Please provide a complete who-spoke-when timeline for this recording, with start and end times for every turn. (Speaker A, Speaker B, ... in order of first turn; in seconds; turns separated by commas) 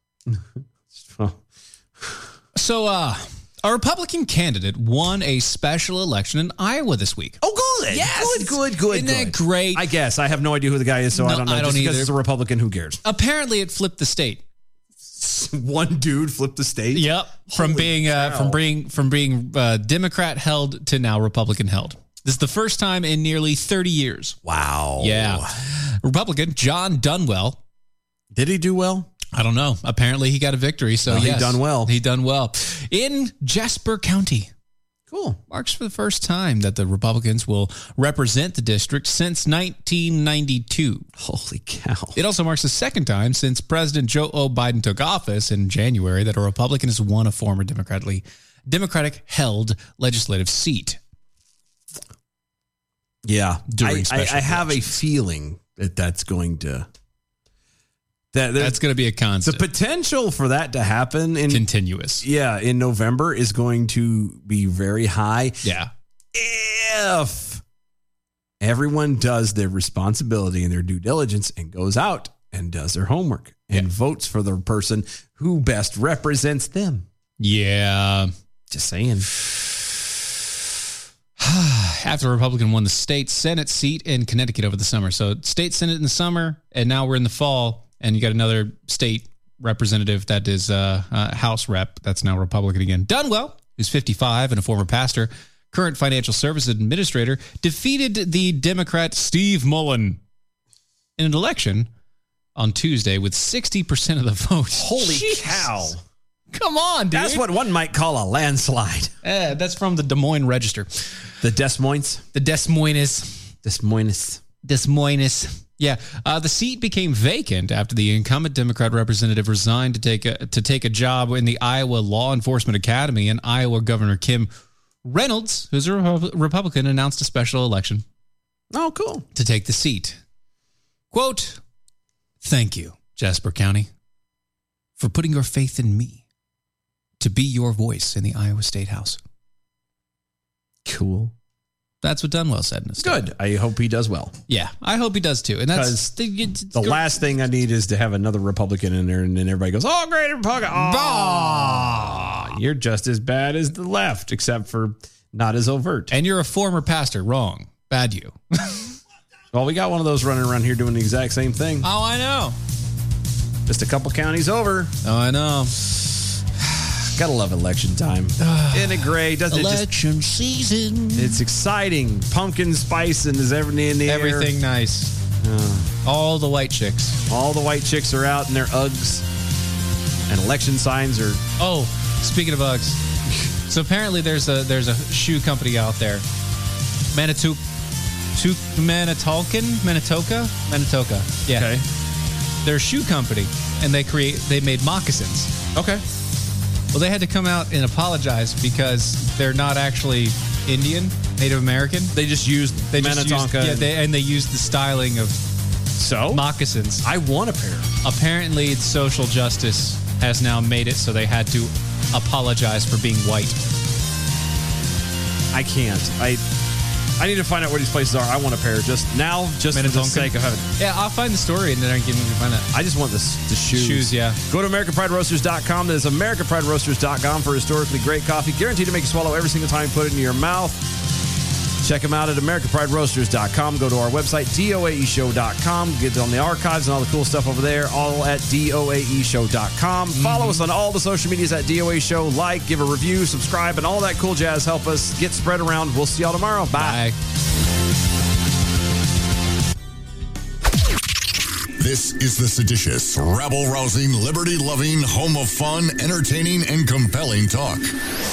Speaker A: 0.3-1.4, Speaker B: 2.5-9.8, Speaker A: 7.4-13.0, Speaker B: 11.1-12.1, Speaker B: 13.0-14.4, Speaker A: 15.1-18.6, Speaker B: 16.9-24.4, Speaker A: 24.4-25.5, Speaker B: 25.0-27.6, Speaker A: 28.3-29.1, Speaker B: 29.3-34.5, Speaker A: 31.1-31.9, Speaker A: 35.1-35.4, Speaker B: 35.5-41.1, Speaker A: 41.2-42.2, Speaker B: 42.1-51.0, Speaker A: 53.2-56.9, Speaker B: 53.7-54.9, Speaker A: 58.3-58.8, Speaker B: 58.6-59.7, Speaker A: 59.4-61.6, Speaker B: 61.5-62.2, Speaker A: 62.2-65.6, Speaker B: 65.6-65.9, Speaker A: 66.3-67.6, Speaker A: 68.6-77.1, Speaker B: 77.4-78.3, Speaker A: 78.7-79.3, Speaker B: 81.4-100.2, Speaker B: 101.2-101.9, Speaker B: 102.6-105.7, Speaker A: 104.7-106.0, Speaker B: 106.5-107.5, Speaker A: 107.1-109.1, Speaker B: 109.2-111.3, Speaker A: 111.4-112.2, Speaker B: 112.3-113.5, Speaker A: 113.6-114.4, Speaker B: 114.6-124.5, Speaker B: 125.0-128.0, Speaker A: 128.7-129.3, Speaker B: 129.3-130.2, Speaker B: 131.1-131.6, Speaker B: 132.4-133.9, Speaker B: 135.0-136.2, Speaker B: 137.2-139.2, Speaker A: 140.8-141.3, Speaker B: 142.0-143.2, Speaker A: 143.0-144.3, Speaker B: 144.5-147.2, Speaker A: 145.7-146.1, Speaker A: 146.7-156.1, Speaker B: 150.7-152.5, Speaker B: 156.1-158.9, Speaker A: 159.5-161.9, Speaker B: 161.8-162.6, Speaker A: 163.7-164.9, Speaker B: 165.0-165.8, Speaker A: 166.6-169.9, Speaker B: 168.4-171.4, Speaker A: 171.2-174.5, Speaker B: 174.1-175.1, Speaker A: 175.4-175.9, Speaker B: 176.0-177.2, Speaker A: 177.3-179.3, Speaker A: 180.3-181.4, Speaker B: 181.6-183.0, Speaker B: 183.7-186.2, Speaker B: 187.1-187.6, Speaker B: 188.3-191.7, Speaker A: 191.5-191.8, Speaker B: 192.6-195.5, Speaker A: 195.8-196.0, Speaker B: 196.9-202.2, Speaker A: 202.1-203.9, Speaker B: 202.9-205.4, Speaker A: 206.0-206.4, Speaker B: 206.3-207.1, Speaker A: 207.0-207.9, Speaker B: 208.0-213.6, Speaker A: 215.5-216.5, Speaker A: 217.2-220.7, Speaker B: 219.7-222.7, Speaker A: 222.7-230.9, Speaker B: 223.7-224.4, Speaker A: 231.8-247.0, Speaker B: 240.1-240.7, Speaker B: 246.8-247.2, Speaker C: 251.8-257.9